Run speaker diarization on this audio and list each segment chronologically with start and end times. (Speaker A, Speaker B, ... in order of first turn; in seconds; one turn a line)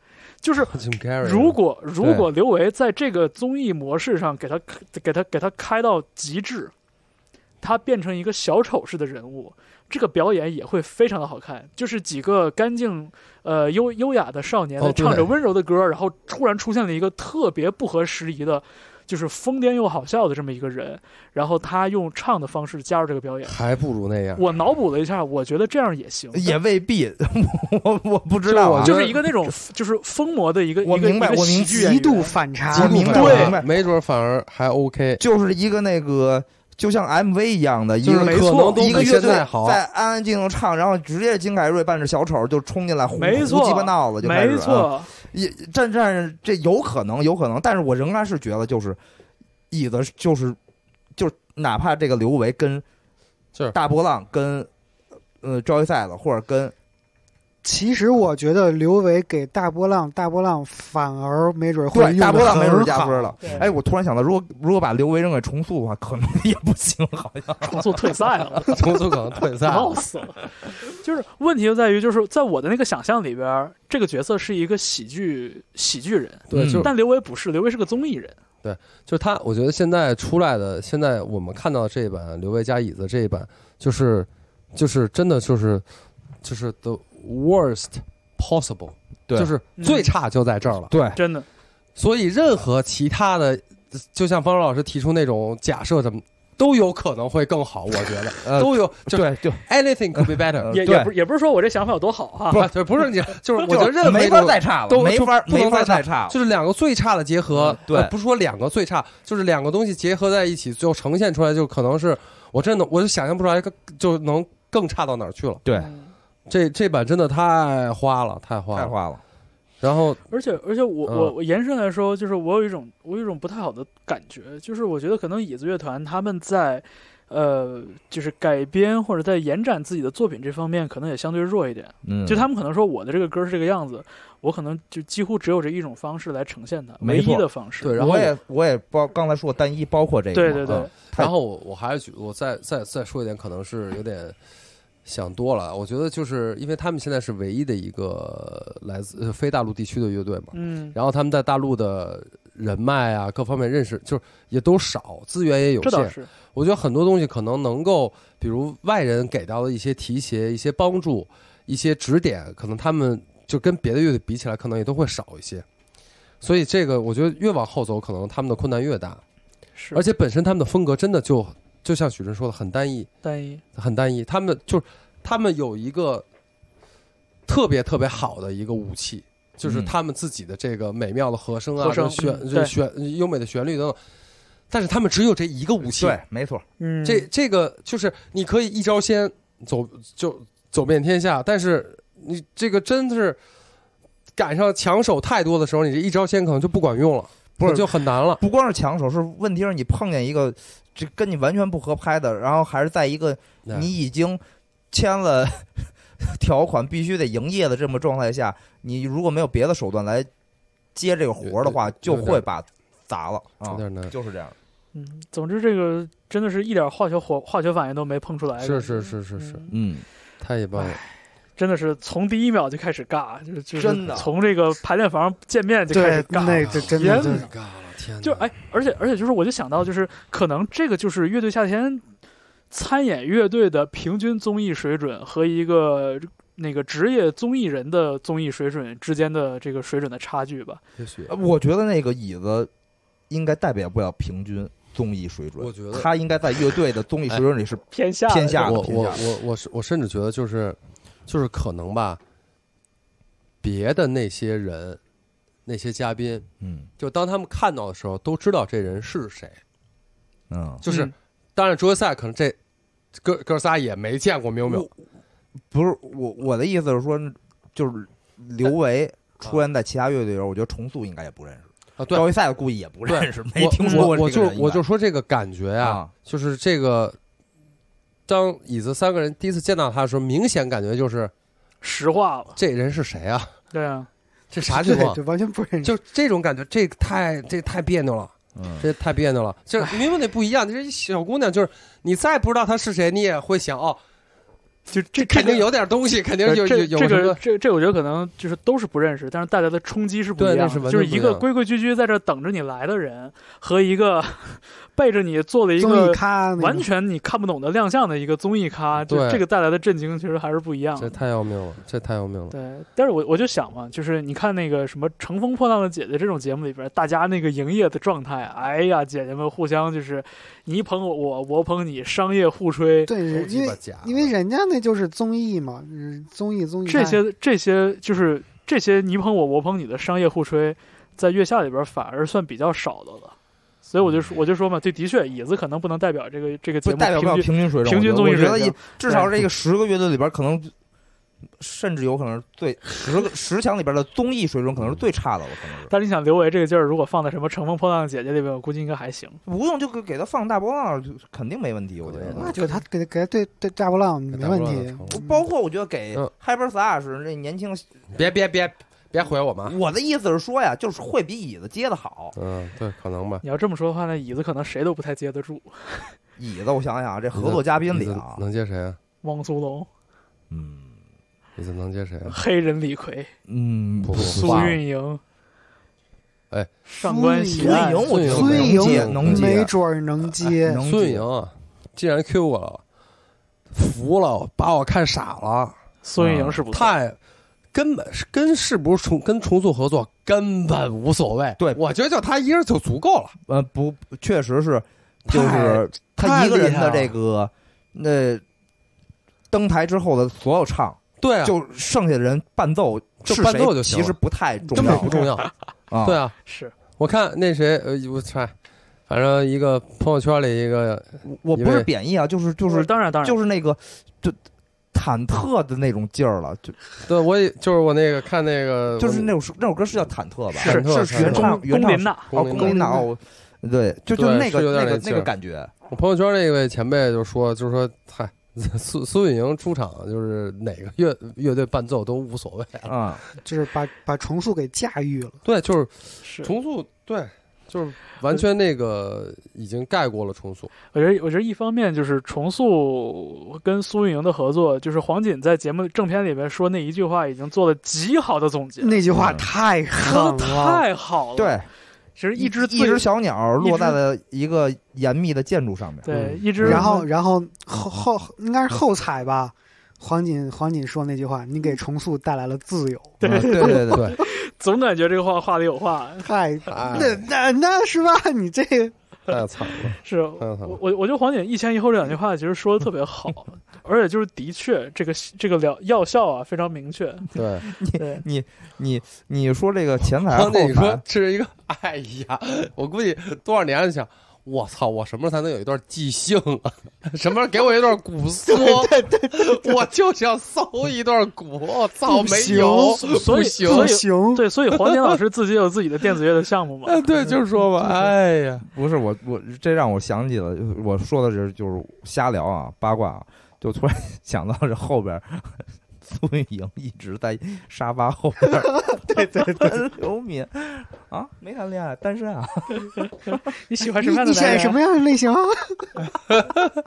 Speaker A: 0.4-6.7
Speaker B: 0.6-1.6
Speaker C: 2.0-2.3
Speaker A: 7.6-23.6
Speaker B: 14.8-15.3
Speaker B: 23.4-24.5
Speaker A: 24.4-26.6
Speaker C: 26.3-29.0
Speaker B: 28.4-29.1
Speaker A: 28.8-32.4
Speaker C: 30.8-31.9
Speaker D: 31.7-33.3
Speaker C: 32.7-33.7
Speaker B: 32.7-35.2
Speaker A: 33.1-33.6
Speaker C: 35.2-49.0
Speaker B: 38.0-39.8
Speaker A: 38.2-39.3
Speaker A: 43.2-45.1
Speaker C: 49.7-50.6
Speaker C: 51.1-52.8
Speaker C: 53.7-54.7
Speaker C: 55.4-56.7
Speaker D: 57.6-63.4
Speaker C: 61.9-67.9
Speaker A: 67.6-68.8
Speaker B: 68.7-70.0
Speaker A: 69.6-78.4
Speaker B: 76.5-76.9
Speaker C: 76.5-76.9
Speaker B: 78.6-85.8
Speaker B: 86.4-90.9
Speaker A: 89.8-90.1
Speaker C: 90.9-91.2
Speaker A: 91.1-91.5
Speaker B: 92.0-100.7
Speaker C: 98.4-99.6
Speaker C: 100.1-101.1
Speaker A: 100.7-102.7
Speaker B: 102.5-115.6
Speaker C: 103.6-106.3
Speaker C: 107.5-108.1
Speaker C: 115.6-115.9
Speaker A: 115.7-116.1
Speaker B: 116.5-118.9
Speaker C: 118.7-119.2
Speaker B: 119.8-120.2
Speaker A: 120.3-138.1
Speaker B: 121.0-121.3
Speaker C: 132.0-132.5
Speaker C: 137.0-141.3
Speaker B: 137.8-138.3
Speaker A: 140.3-140.9
Speaker B: 140.7-144.3
Speaker B: 145.0-165.6
Speaker A: 150.5-150.9
Speaker A: 155.8-156.3
Speaker B: 166.4-169.2
Speaker A: 169.8-170.0
Speaker B: 169.9-173.1
Speaker A: 173.2-173.6
Speaker B: 173.7-176.2
Speaker B: 177.5-184.0
Speaker C: 179.6-179.9
Speaker A: 181.8-182.7
Speaker B: 184.7-186.2
Speaker C: 186.0-186.6
Speaker A: 186.8-187.3
Speaker B: 187.0-193.4
Speaker B: 194.3-198.4
Speaker C: 197.6-204.4
Speaker C: 204.9-210.3
Speaker C: 210.9-214.5
Speaker B: 211.4-212.4
Speaker B: 213.7-214.1
Speaker A: 214.9-219.7
Speaker B: 218.6-219.6
Speaker C: 219.7-220.0
Speaker B: 220.4-221.0
Speaker A: 220.8-227.5
Speaker C: 223.8-224.3
Speaker D: 225.9-227.5
Speaker B: 226.3-228.5
Speaker A: 228.2-232.0
Speaker A: 232.7-240.8
Speaker B: 241.0-241.3
Speaker C: 241.3-242.7
Speaker C: 243.3-249.2
Speaker B: 245.6-246.1
Speaker A: 247.9-248.8
Speaker B: 248.6-252.2
Speaker B: 253.6-255.0
Speaker B: 255.7-256.4
Speaker C: 256.6-256.9
Speaker B: 257.0-259.6
Speaker C: 260.5-260.8
Speaker B: 260.8-262.6
Speaker A: 260.9-261.1
Speaker B: 263.2-264.9
Speaker C: 265.7-274.8
Speaker B: 272.0-272.2
Speaker B: 273.1-277.2
Speaker A: 273.8-274.1
Speaker C: 275.8-276.1
Speaker B: 278.3-281.3
Speaker A: 281.8-282.6
Speaker B: 282.6-283.5
Speaker A: 283.7-284.1
Speaker B: 284.5-285.2
Speaker D: 284.6-285.9
Speaker B: 285.8-294.0
Speaker C: 288.5-288.9
Speaker A: 294.9-295.7
Speaker B: 295.1-297.4
Speaker A: 296.4-311.1
Speaker B: 300.4-301.4
Speaker D: 305.8-306.9
Speaker B: 309.1-309.4
Speaker B: 311.0-312.5
Speaker A: 312.5-323.1
Speaker D: 323.1-327.2
Speaker B: 323.3-324.3
Speaker A: 326.9-339.3
Speaker C: 336.8-340.7
Speaker C: 341.6-345.9
Speaker A: 345.9-349.4
Speaker C: 349.4-352.8
Speaker B: 352.0-352.6
Speaker D: 352.4-355.4
Speaker B: 354.3-355.2
Speaker C: 355.1-357.9
Speaker B: 358.1-359.8
Speaker C: 359.6-362.3
Speaker B: 362.3-363.4
Speaker A: 363.4-366.1
Speaker C: 366.4-368.4
Speaker B: 367.3-369.0
Speaker A: 369.2-369.9
Speaker C: 370.5-370.9
Speaker B: 371.6-372.4
Speaker A: 372.3-373.3
Speaker C: 373.5-374.8
Speaker B: 374.0-374.8
Speaker A: 374.1-375.2
Speaker A: 376.9-378.1
Speaker D: 377.0-380.8
Speaker C: 377.5-379.7
Speaker B: 378.1-379.6
Speaker C: 380.4-381.2
Speaker B: 380.8-382.8
Speaker B: 383.7-387.2
Speaker A: 386.0-386.9
Speaker B: 387.7-393.3
Speaker C: 393.5-398.4
Speaker B: 395.3-397.1
Speaker C: 399.5-405.3
Speaker B: 401.2-401.5
Speaker B: 403.2-404.1
Speaker A: 404.7-405.1
Speaker B: 404.7-405.5
Speaker C: 405.9-406.2
Speaker B: 406.0-406.3
Speaker A: 406.4-406.7
Speaker B: 407.0-408.5
Speaker B: 409.1-411.9
Speaker C: 411.2-414.4
Speaker A: 412.7-413.4
Speaker C: 414.9-416.8
Speaker B: 417.0-419.3
Speaker C: 419.0-425.7
Speaker A: 420.5-423.0
Speaker B: 420.6-421.6
Speaker B: 422.3-422.8
Speaker D: 422.6-423.0
Speaker B: 424.1-425.3
Speaker B: 425.9-432.9
Speaker C: 432.8-433.2
Speaker D: 433.4-435.4
Speaker B: 435.4-440.7
Speaker A: 436.2-436.5
Speaker A: 440.9-449.0
Speaker D: 448.8-450.8
Speaker A: 450.0-451.6
Speaker C: 451.4-451.7
Speaker A: 452.1-453.1
Speaker C: 452.4-456.8
Speaker A: 453.6-454.0
Speaker A: 456.0-457.1
Speaker B: 456.1-456.8
Speaker D: 456.6-463.1
Speaker A: 463.2-466.3
Speaker C: 463.2-464.1
Speaker B: 463.2-464.2
Speaker D: 466.2-468.9
Speaker B: 466.7-467.2
Speaker B: 469.3-470.8
Speaker A: 470.0-478.2
Speaker B: 477.3-477.6
Speaker C: 477.7-481.0
Speaker B: 480.3-494.0
Speaker D: 488.4-489.8
Speaker D: 492.1-494.4
Speaker A: 493.0-497.0
Speaker B: 494.7-495.1
Speaker B: 496.9-498.6
Speaker C: 498.6-513.1
Speaker D: 508.5-509.8
Speaker A: 513.3-514.8
Speaker D: 514.0-516.0